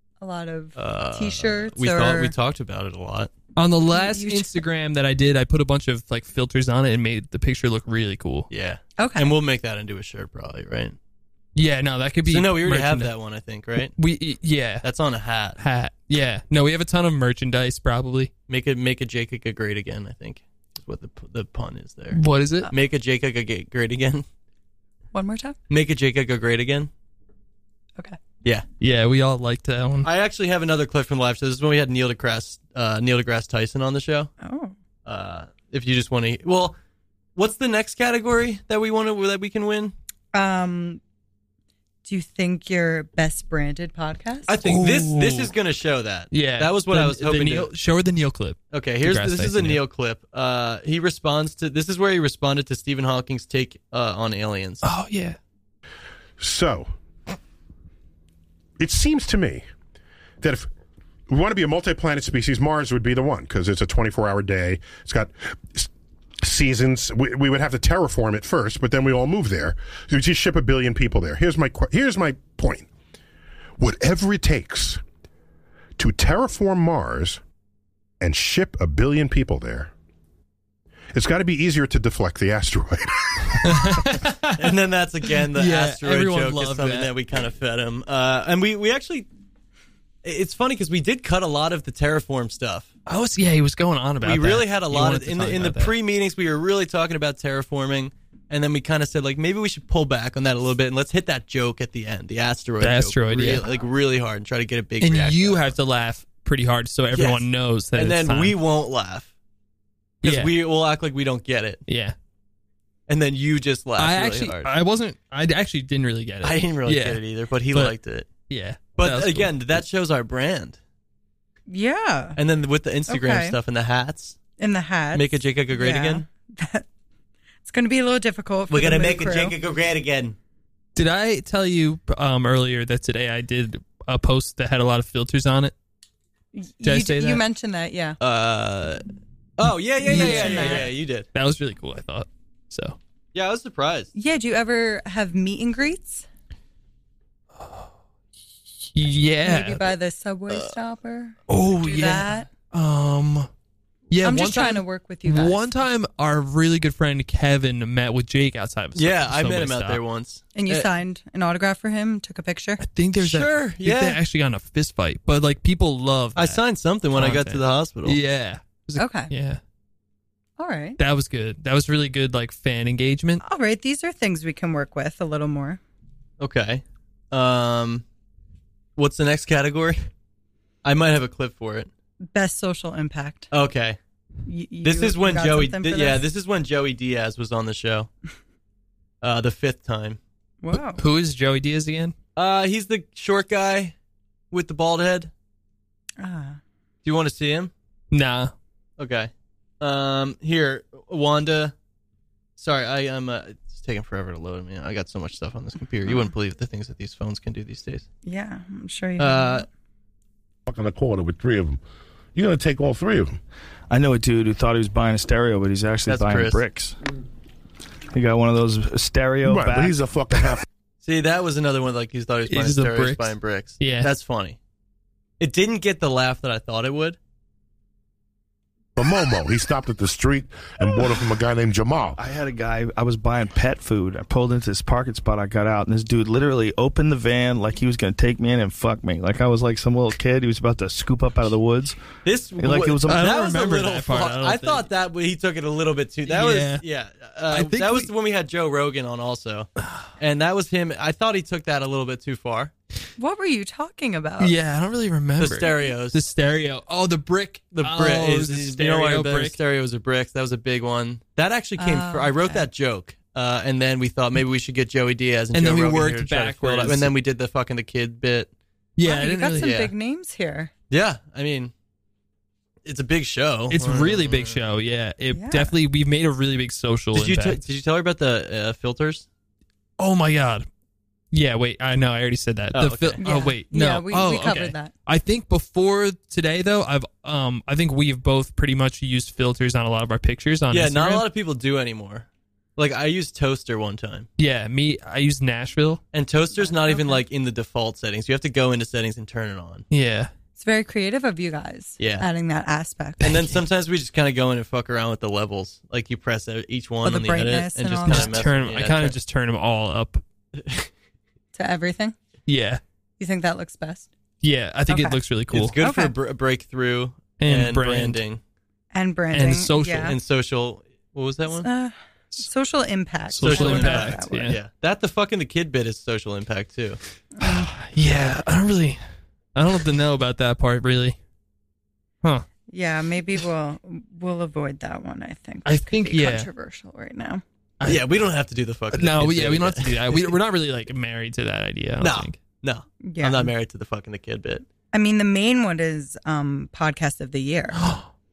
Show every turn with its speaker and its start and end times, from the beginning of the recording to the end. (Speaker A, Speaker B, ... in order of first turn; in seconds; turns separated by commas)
Speaker A: 0.2-2.3, Speaker B: 0.8-3.3, Speaker C: 3.6-8.5, Speaker A: 3.9-4.6, Speaker B: 8.5-11.0, Speaker A: 9.0-9.3, Speaker C: 11.6-13.1, Speaker B: 12.3-13.9, Speaker C: 13.9-14.8, Speaker B: 14.8-15.6, Speaker C: 15.6-18.3, Speaker B: 18.5-24.2, Speaker C: 22.1-22.7, Speaker A: 25.1-25.6, Speaker B: 25.7-26.9, Speaker C: 28.8-30.1, Speaker B: 30.0-34.3, Speaker A: 34.4-34.8, Speaker B: 35.1-36.8, Speaker B: 37.4-40.0, Speaker A: 40.3-41.0, Speaker A: 42.0-44.5, Speaker B: 44.5-47.7, Speaker C: 44.6-45.5, Speaker C: 46.3-49.8, Speaker B: 48.7-54.9, Speaker C: 54.8-55.4, Speaker D: 56.4-56.9, Speaker D: 58.8-59.7, Speaker D: 60.4-60.7, Speaker D: 61.3-65.9, Speaker D: 66.4-72.9, Speaker D: 73.8-75.0, Speaker D: 76.0-77.4, Speaker D: 78.2-79.9, Speaker D: 81.1-83.9, Speaker C: 83.6-84.7, Speaker B: 84.5-89.3, Speaker C: 85.5-87.1, Speaker B: 90.2-92.9, Speaker C: 93.1-95.9, Speaker B: 94.2-105.7, Speaker C: 102.8-103.7, Speaker C: 105.0-108.5, Speaker B: 107.1-109.3, Speaker C: 110.2-110.5, Speaker B: 110.2-111.8, Speaker C: 111.9-112.2, Speaker B: 113.1-114.7, Speaker C: 114.0-117.2, Speaker B: 116.4-118.3, Speaker C: 118.5-119.7, Speaker B: 119.0-120.8, Speaker A: 121.7-122.4, Speaker B: 122.4-124.4, Speaker A: 123.1-123.6, Speaker A: 124.6-126.9, Speaker B: 125.1-126.2, Speaker A: 127.7-129.6, Speaker B: 128.7-130.4, Speaker C: 130.9-135.7, Speaker A: 136.5-138.2, Speaker C: 136.8-137.4, Speaker B: 138.2-139.0, Speaker B: 139.6-141.3, Speaker A: 140.0-140.9, Speaker C: 140.1-143.0, Speaker B: 143.3-144.1, Speaker A: 144.2-146.3, Speaker C: 147.6-147.9, Speaker C: 148.9-149.9, Speaker A: 149.4-152.5, Speaker C: 151.5-153.5, Speaker C: 154.1-160.0, Speaker A: 154.2-155.6, Speaker B: 158.9-160.9, Speaker A: 160.6-162.8, Speaker C: 162.8-166.6, Speaker B: 163.2-164.2, Speaker B: 166.4-168.2, Speaker C: 167.1-169.6, Speaker A: 169.0-169.3, Speaker A: 170.6-171.0, Speaker C: 171.0-173.4, Speaker A: 173.4-175.8, Speaker B: 176.4-178.1, Speaker B: 179.0-180.1, Speaker B: 180.8-181.9, Speaker A: 182.3-183.5, Speaker B: 183.5-184.0, Speaker A: 184.5-186.2, Speaker B: 184.8-188.1, Speaker B: 189.2-190.2, Speaker A: 190.6-191.0, Speaker C: 190.7-192.2, Speaker B: 192.4-193.9, Speaker B: 194.5-195.3, Speaker A: 196.2-196.6, Speaker B: 197.0-197.7, Speaker C: 198.1-198.5, Speaker B: 199.0-201.7, Speaker B: 202.6-208.1, Speaker A: 208.2-209.7, Speaker B: 209.2-209.7, Speaker D: 210.7-211.8, Speaker D: 212.3-213.4, Speaker E: 213.9-217.0, Speaker B: 216.1-216.6, Speaker E: 218.1-220.0, Speaker D: 219.5-220.7, Speaker B: 221.0-224.6, Speaker C: 222.5-224.1, Speaker B: 225.4-227.2, Speaker D: 229.0-232.2, Speaker E: 232.2-242.0, Speaker B: 242.2-252.7, Speaker E: 242.6-243.3, Speaker C: 243.1-244.9, Speaker C: 246.3-246.8, Speaker C: 247.5-248.1, Speaker C: 249.8-250.1, Speaker A: 253.2-254.5, Speaker C: 254.4-259.6, Speaker B: 255.4-256.2, Speaker B: 257.7-268.5, Speaker A: 261.8-262.7, Speaker C: 265.5-267.1, Speaker C: 269.0-269.8, Speaker A: 269.0-270.7, Speaker B: 269.5-269.9, Speaker B: 270.9-271.7, Speaker B: 272.9-274.6, Speaker C: 273.7-277.6, Speaker A: 275.3-275.8, Speaker B: 277.1-279.3, Speaker C: 280.0-280.7, Speaker C: 281.3-291.2, Speaker B: 282.7-283.2, Speaker A: 283.2-284.9, Speaker B: 290.7-294.3, Speaker C: 294.4-296.0, Speaker B: 296.1-299.9, Speaker A: 296.6-297.2, Speaker C: 299.9-300.3, Speaker A: 300.6-303.6, Speaker B: 302.0-302.3, Speaker B: 303.2-309.2, Speaker A: 307.0-308.4, Speaker C: 308.1-310.2, Speaker B: 310.6-310.9, Speaker A: 311.6-312.2, Speaker C: 312.5-312.8, Speaker A: 313.2-314.1, Speaker C: 314.4-315.8, Speaker A: 314.9-315.2, Speaker B: 315.5-318.4, Speaker A: 315.8-316.1, Speaker C: 317.4-318.2, Speaker A: 318.9-320.2, Speaker C: 319.3-320.1, Speaker B: 320.0-321.7, Speaker A: 321.5-324.5, Speaker C: 323.3-324.6, Speaker B: 323.4-327.0, Speaker A: 327.4-327.7, Speaker C: 327.4-329.0, Speaker C: 329.6-331.2, Speaker A: 332.7-337.4, Speaker C: 335.7-336.5, Speaker C: 337.8-338.1, Speaker B: 337.8-340.4, Speaker C: 338.9-342.4, Speaker B: 342.0-344.6, Speaker A: 343.0-343.5, Speaker A: 344.9-347.8, Speaker C: 347.8-348.1